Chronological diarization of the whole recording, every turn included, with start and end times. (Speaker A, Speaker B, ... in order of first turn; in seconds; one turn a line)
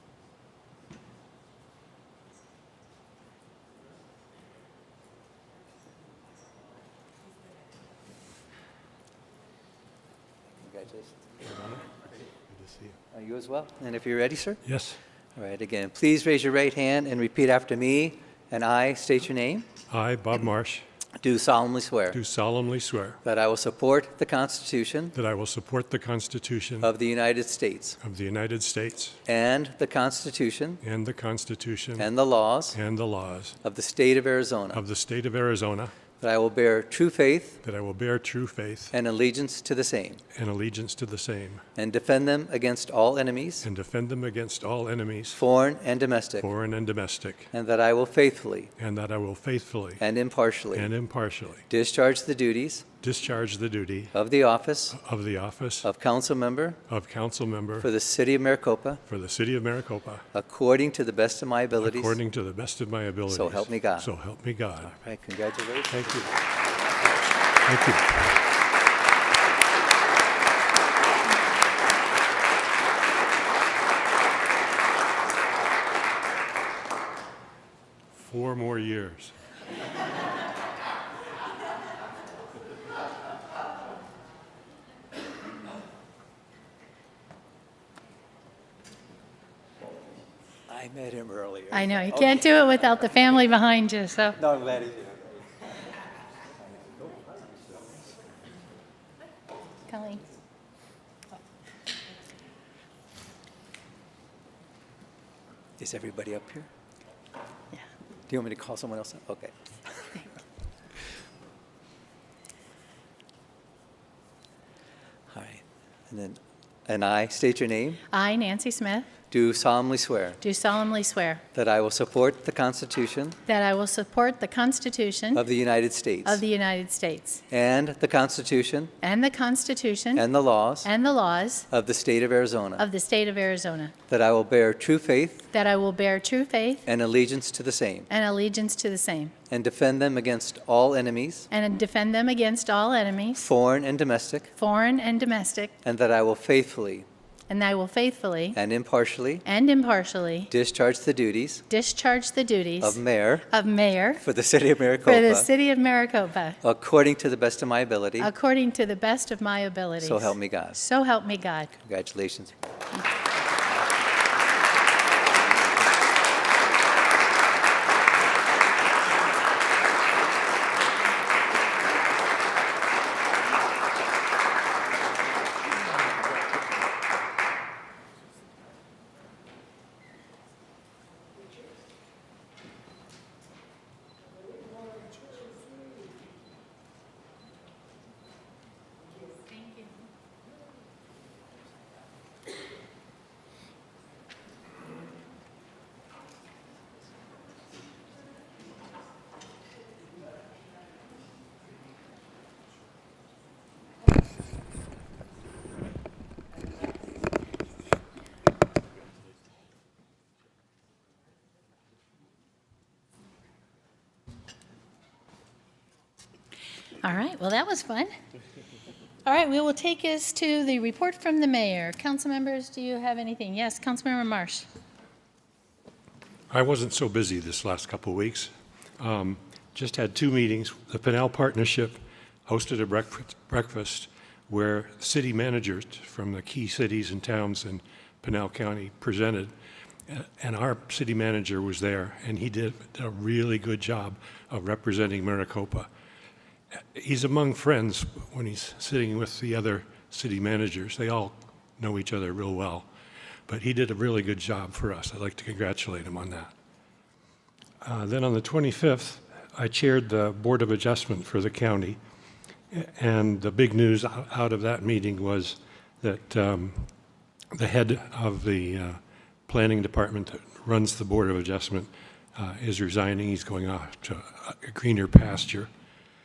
Speaker A: 10.6-11.2
Speaker B: 11.4-11.8
Speaker B: 12.5-12.9
Speaker A: 13.1-14.6
Speaker B: 14.7-15.0
Speaker A: 15.4-19.7
Speaker B: 19.9-20.8
Speaker A: 21.2-22.2
Speaker B: 22.1-23.2
Speaker A: 23.2-25.1
Speaker B: 25.1-26.9
Speaker A: 26.8-28.0
Speaker B: 28.0-29.2
Speaker A: 29.3-30.8
Speaker B: 30.8-32.1
Speaker A: 32.0-32.8
Speaker B: 32.7-33.6
Speaker A: 33.6-34.8
Speaker B: 34.7-35.9
Speaker A: 36.2-37.6
Speaker B: 37.6-38.9
Speaker A: 38.9-40.2
Speaker B: 40.3-41.6
Speaker A: 41.8-43.7
Speaker B: 43.6-45.4
Speaker A: 45.3-46.5
Speaker B: 46.4-47.5
Speaker A: 47.5-48.7
Speaker B: 48.8-50.0
Speaker A: 50.0-50.9
Speaker B: 50.7-51.6
Speaker A: 51.7-52.9
Speaker B: 53.0-54.1
Speaker A: 54.1-55.0
Speaker B: 54.9-55.9
Speaker A: 55.8-56.8
Speaker B: 56.9-57.9
Speaker A: 57.8-59.0
Speaker B: 59.1-60.2
Speaker A: 60.3-62.2
Speaker B: 61.8-64.9
Speaker A: 63.3-64.1
Speaker A: 64.8-66.2
Speaker B: 65.9-66.3
Speaker B: 67.7-68.1
Speaker B: 78.1-79.3
Speaker A: 90.7-92.4
Speaker C: 91.7-94.4
Speaker A: 94.4-95.3
Speaker C: 99.9-100.2
Speaker A: 105.8-106.7
Speaker A: 108.3-109.5
Speaker A: 115.3-118.0
Speaker C: 118.1-119.1
Speaker A: 119.3-120.4
Speaker C: 120.4-121.4
Speaker A: 121.5-123.4
Speaker C: 123.5-125.5
Speaker A: 125.3-126.4
Speaker C: 126.2-127.4
Speaker A: 127.5-128.9
Speaker C: 129.0-130.3
Speaker A: 130.2-130.9
Speaker C: 130.8-131.7
Speaker A: 131.7-132.8
Speaker C: 132.8-133.9
Speaker A: 134.1-135.5
Speaker C: 135.5-136.9
Speaker A: 136.9-138.1
Speaker C: 138.1-139.3
Speaker A: 139.5-141.5
Speaker C: 141.5-143.4
Speaker A: 143.4-144.5
Speaker C: 144.6-145.7
Speaker A: 145.8-147.1
Speaker C: 147.5-148.6
Speaker A: 148.5-149.4
Speaker C: 149.4-150.5
Speaker A: 150.5-151.7
Speaker C: 151.7-154.2
Speaker A: 152.8-153.5
Speaker A: 154.2-155.5
Speaker C: 155.1-156.6
Speaker A: 156.6-158.3
Speaker C: 158.2-161.7
Speaker A: 160.0-160.8
Speaker A: 161.8-162.5
Speaker C: 217.0-218.1
Speaker C: 219.2-224.7
Speaker B: 226.5-239.5
Speaker B: 240.1-245.9
Speaker B: 246.9-252.9
Speaker B: 253.5-256.5
Speaker B: 257.8-262.0
Speaker B: 262.7-266.9
Speaker B: 267.5-275.7